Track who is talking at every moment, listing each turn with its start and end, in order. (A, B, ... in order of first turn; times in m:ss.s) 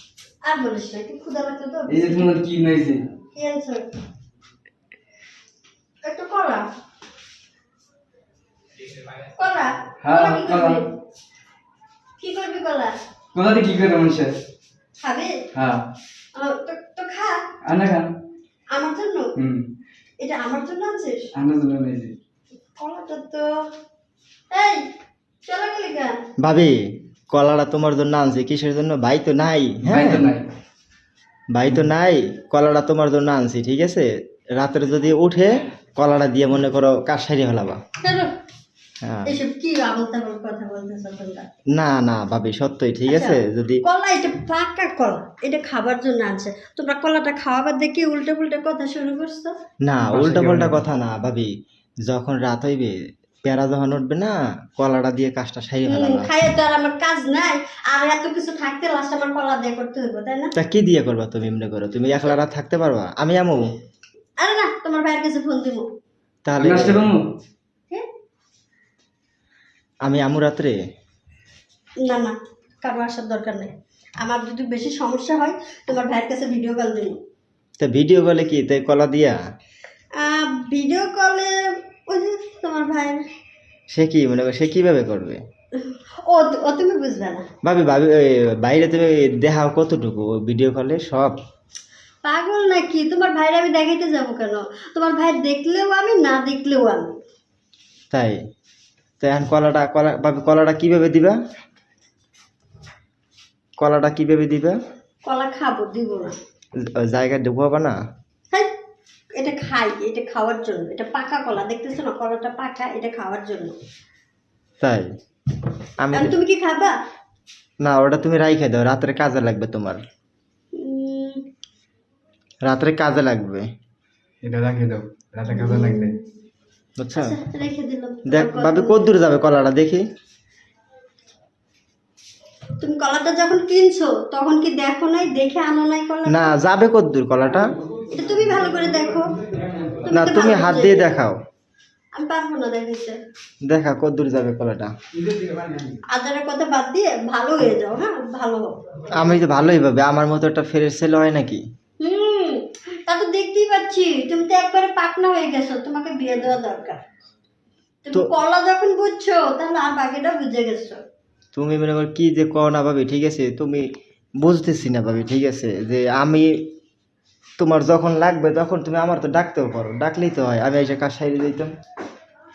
0:00.4-0:02.3 A
0:01.9-0:03.0 B
0:03.3-0:03.8 A
0:06.0-0:06.6 A
0:09.4-0:10.9 A
0:10.0-0:10.8 B
0:12.2-0:12.9 A
0:13.3-0:14.3 B
0:15.0-0:15.4 A
0:15.5-0:15.8 B
0:16.3-0:17.4 A
0:17.6-0:18.1 B
0:18.7-0:19.3 A
0:19.4-0:19.6 B
0:20.2-0:21.3 A
0:21.4-0:22.1 B
0:22.8-0:23.5 A
0:24.5-0:24.8 A
0:25.4-0:26.2 A
0:26.4-0:30.2 C
0:29.8-0:30.5 B
0:31.5-0:37.8 C
0:38.0-0:38.3 A
0:39.0-0:39.3 C
0:39.2-0:41.5 A
0:41.7-0:43.8 C
0:43.1-0:49.5 A
0:49.8-0:51.5 C
0:50.1-0:50.8 B
0:52.1-0:56.3 C
0:55.8-1:00.5 A
1:00.6-1:03.6 C
1:04.4-1:05.9 A
1:06.4-1:07.1 C
1:06.6-1:07.2 B
1:10.0-1:10.8 C
1:12.0-1:17.2 A
1:17.8-1:19.4 C
1:20.2-1:21.6 A
1:22.1-1:23.2 A
1:23.9-1:25.4 C
1:25.8-1:27.5 A
1:27.6-1:31.4 C
1:32.2-1:37.2 A
1:38.1-1:38.4 C
1:39.2-1:41.4 C
1:43.8-1:44.8 C
1:45.2-1:46.4 A
1:46.8-1:48.0 C
1:49.4-1:53.8 A
1:54.8-1:55.1 C
1:56.0-1:56.3 C
1:56.1-1:56.9 A
1:57.8-2:00.0 C
2:00.7-2:01.4 A
2:02.6-2:03.7 C
2:04.4-2:06.2 B
2:05.5-2:06.2 A
2:07.0-2:07.3 C
2:07.2-2:09.1 A
2:08.3-2:10.0 C
2:12.8-2:16.6 A
2:16.3-2:17.7 C
2:18.1-2:19.3 A
2:20.0-2:21.1 A
2:20.1-2:21.4 C
2:22.1-2:23.2 A
2:23.6-2:24.9 C
2:25.2-2:26.0 B
2:26.1-2:29.1 A
2:29.1-2:31.6 C
2:32.0-2:37.0 A
2:38.0-2:41.0 A
2:41.5-2:43.9 C
2:44.4-2:46.6 C
2:47.6-2:51.7 C